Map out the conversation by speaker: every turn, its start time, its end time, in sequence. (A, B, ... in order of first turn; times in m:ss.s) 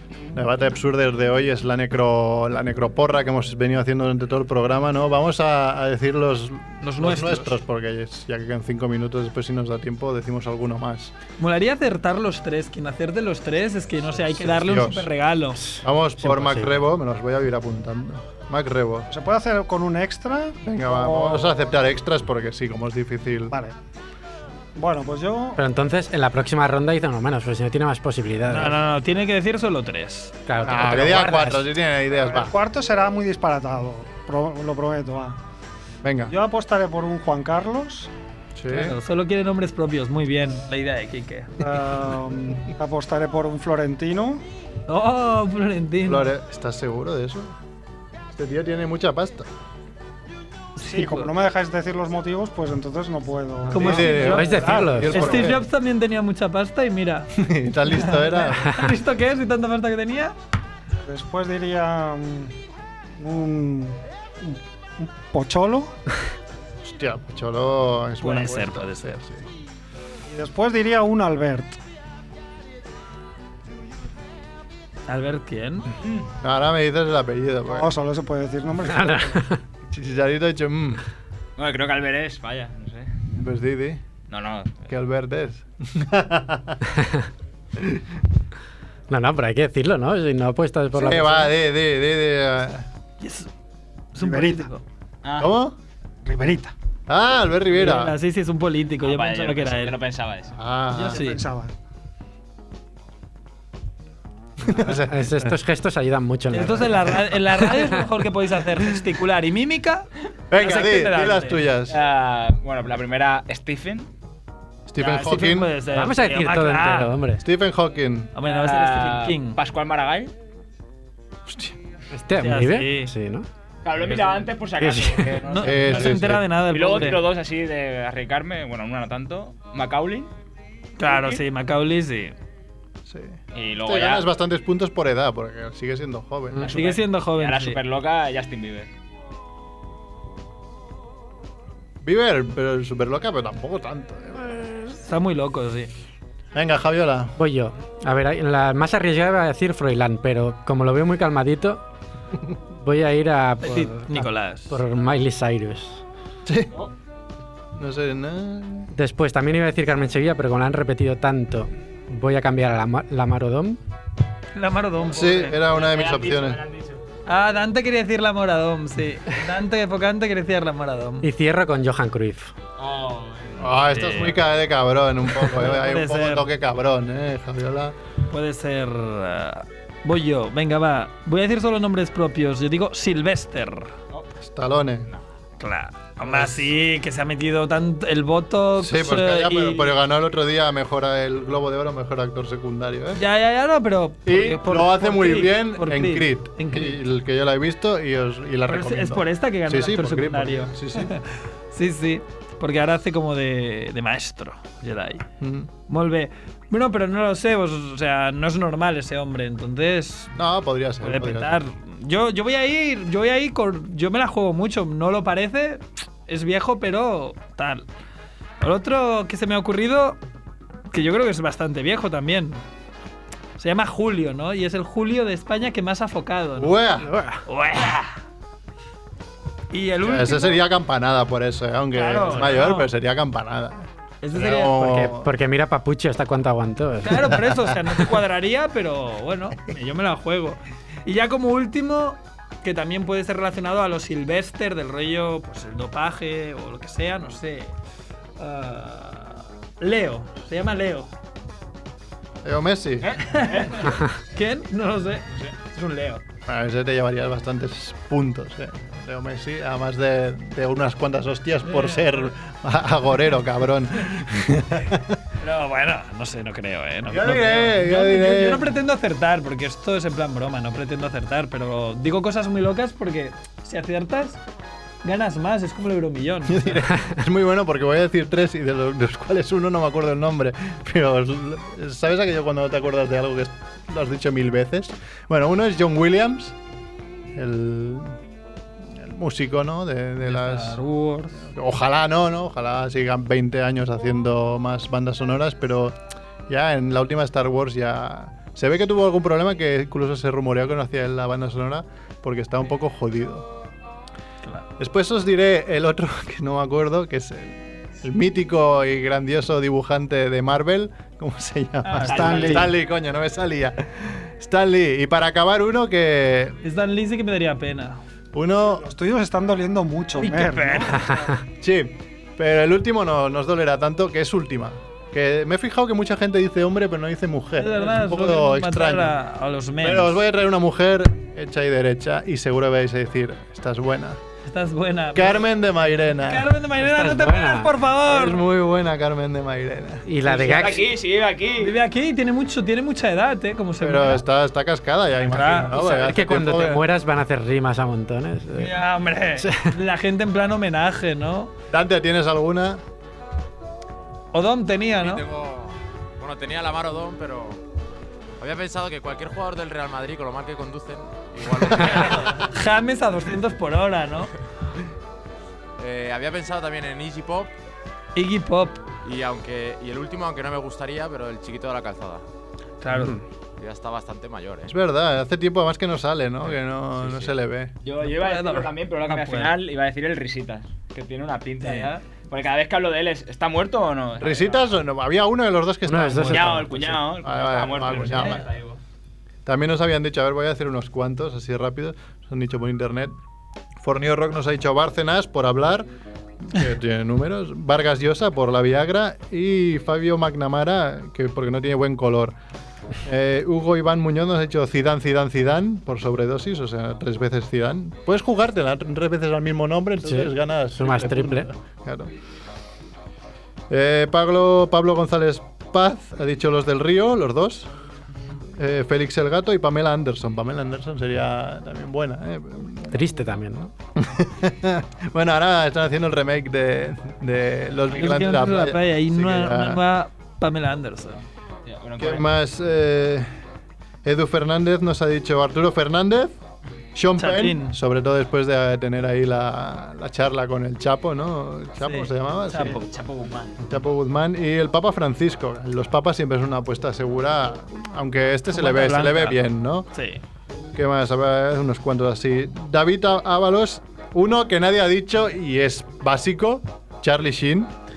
0:00.3-0:11.1 A
0:06.8-0:07.6 B
0:11.4-0:15.6 B
0:14.2-0:15.1 A
0:15.6-0:16.8 C
0:15.8-0:19.1 A
0:19.1-0:21.5 D
0:20.6-0:23.5 A
0:23.5-0:23.8 D
0:24.8-0:25.6 D
0:25.6-0:28.8 C
0:28.5-0:30.4 B
0:30.5-0:31.7 C
0:30.6-0:32.5 A
0:32.2-0:35.4 D
0:36.0-0:36.3 A
0:36.3-0:38.1 D
0:38.6-0:39.0 A
0:38.7-0:41.5 B
0:41.6-0:44.4 D
0:44.9-0:46.3 B
0:46.1-0:47.5 A
0:48.3-0:49.5 A
0:50.8-0:51.3 B
0:50.8-0:55.5 D
0:53.7-0:57.3 B
0:53.8-0:55.6 A
0:53.9-0:55.4 C
0:57.4-0:58.7 A
0:57.9-1:00.4 B
1:01.1-1:02.6 D
1:03.2-1:05.9 D
1:06.8-1:09.5 A
1:08.2-1:09.2 B
1:10.3-1:11.8 D
1:15.1-1:15.9 B
1:16.0-1:16.3 E
1:16.4-1:17.9 A
1:17.7-1:19.5 D
1:18.8-1:19.6 C
1:19.9-1:21.0 A
1:21.6-1:23.1 E
1:23.4-1:24.0 A
1:24.3-1:24.9 E
1:24.9-1:26.8 A
1:29.1-1:31.5 C
1:31.0-1:32.9 A
1:33.2-1:33.5 B
1:34.1-1:34.8 B
1:34.2-1:34.7 D
1:35.2-1:35.5 E
1:35.4-1:35.7 A
1:36.2-1:36.7 D
1:37.1-1:38.1 A
1:37.7-1:40.0 B
1:39.0-1:40.6 E
1:40.6-1:41.2 A
1:40.9-1:41.4 B
1:41.0-1:41.7 D
1:44.6-1:45.5 A
1:44.8-1:48.0 C
1:46.5-1:51.6 B
1:50.5-1:52.0 A
1:51.9-1:54.1 E
1:54.9-1:55.7 A
1:55.0-1:57.2 B
1:55.9-1:57.4 C
1:57.4-1:58.3 A
1:58.4-1:59.6 B
1:58.4-2:00.3 E
2:01.5-2:01.8 A
2:02.1-2:03.5 C
2:02.4-2:03.1 B
2:03.8-2:10.3 E
2:04.8-2:05.4 C
2:05.4-2:07.3 B
2:05.6-2:06.4 A
2:11.0-2:12.4 B
2:11.0-2:11.4 E
2:13.1-2:16.7 A
2:13.5-2:14.3 E
2:16.6-2:18.9 E
2:16.7-2:17.8 B
2:22.0-2:25.0 A
2:25.0-2:25.9 B
2:26.6-2:27.3 A
2:27.4-2:31.8 C
2:32.7-2:36.0 C
2:33.6-2:34.8 B
2:36.5-2:36.7 A
2:37.8-2:38.9 A
2:38.9-2:43.8 C
2:44.6-2:45.6 B
2:45.1-2:46.6 A
2:45.6-2:47.0 E
2:47.3-2:51.3 B
2:51.2-2:52.5 C
2:52.8-2:53.7 E
2:53.6-2:58.0 A
2:53.9-2:54.4 B
2:55.4-2:56.5 B
2:58.3-3:04.0 B
3:04.4-3:05.1 A
3:05.6-3:10.0 B
3:06.2-3:06.7 A
3:08.8-3:13.2 A
3:13.2-3:17.0 B
3:14.3-3:21.1 A
3:18.7-3:25.2 B
3:25.4-3:25.7 A
3:25.9-3:30.3 B
3:30.4-3:31.6 A
3:31.0-3:37.8 B
3:38.6-3:40.2 B
3:40.9-3:42.6 B
3:43.6-3:46.8 B
3:46.6-3:47.1 A
3:47.0-3:47.4 C
3:47.5-3:48.1 B
3:49.7-3:50.6 B
3:50.0-3:55.3 A
3:51.9-3:52.9 B
3:54.2-3:55.0 B
3:54.8-3:57.6 C
3:57.0-4:07.7 B
4:08.4-4:11.1 B
4:12.4-4:13.1 A
4:13.0-4:14.0 E
4:13.3-4:15.3 B
4:15.3-4:16.2 E
4:16.5-4:25.2 A
4:21.6-4:22.3 B
4:25.4-4:34.4 B
4:27.1-4:28.7 A
4:35.0-4:36.8 B
4:36.5-4:46.6 A
4:47.4-4:48.2 A
4:49.0-4:50.8 A
4:50.2-4:51.4 B
4:51.4-4:56.0 A
4:56.5-5:03.5 A
5:04.4-5:04.7 B
5:04.8-5:16.6 A
5:11.8-5:12.7 B
5:12.1-5:12.7 D
5:12.2-5:12.5 E
5:16.6-5:18.0 B
5:18.3-5:18.8 A
5:18.8-5:21.3 D
5:20.2-5:21.0 B
5:21.6-5:29.2 A
5:27.6-5:30.2 B
5:29.8-5:34.2 A
5:34.5-5:35.5 B
5:35.2-5:36.5 A
5:36.2-5:38.5 B
5:36.8-5:37.8 C
5:38.1-5:40.0 A
5:40.0-5:40.9 C
5:40.3-5:40.8 B
5:40.4-5:41.8 E
5:41.6-5:44.2 B
5:43.8-5:46.8 A
5:45.2-5:46.0 B
5:45.8-5:48.8 C
5:48.6-5:51.5 B
5:49.4-5:49.7 C
5:51.7-5:52.8 A
5:54.3-5:55.2 B
5:55.0-5:57.6 F
5:58.4-6:02.4 F
6:01.7-6:02.1 A
6:01.8-6:04.3 B
6:05.8-6:07.5 F
6:08.2-6:08.8 B
6:09.0-6:12.2 F
6:12.8-6:13.2 B
6:12.9-6:13.2 C
6:13.6-6:14.7 F
6:14.7-6:17.7 A
6:17.0-6:17.4 F
6:17.8-6:24.7 E
6:18.0-6:19.6 B
6:21.6-6:22.0 B
6:24.2-6:28.5 A
6:25.9-6:26.7 C
6:26.3-6:28.8 E
6:29.5-6:33.2 A
6:33.8-6:35.9 A
6:36.5-6:42.4 A
6:43.0-6:52.1 A
6:50.0-6:51.5 C
6:53.7-6:57.7 A
6:58.6-7:03.0 A
7:02.9-7:03.7 C
7:04.0-7:09.8 A
7:07.9-7:11.2 B
7:11.7-7:12.3 E
7:12.0-7:13.3 A
7:14.0-7:16.4 A
7:17.0-7:22.8 A
7:17.2-7:17.8 B
7:21.8-7:22.9 B
7:22.7-7:23.6 E
7:23.6-7:29.9 A
7:28.5-7:30.2 B
7:30.8-7:37.7 A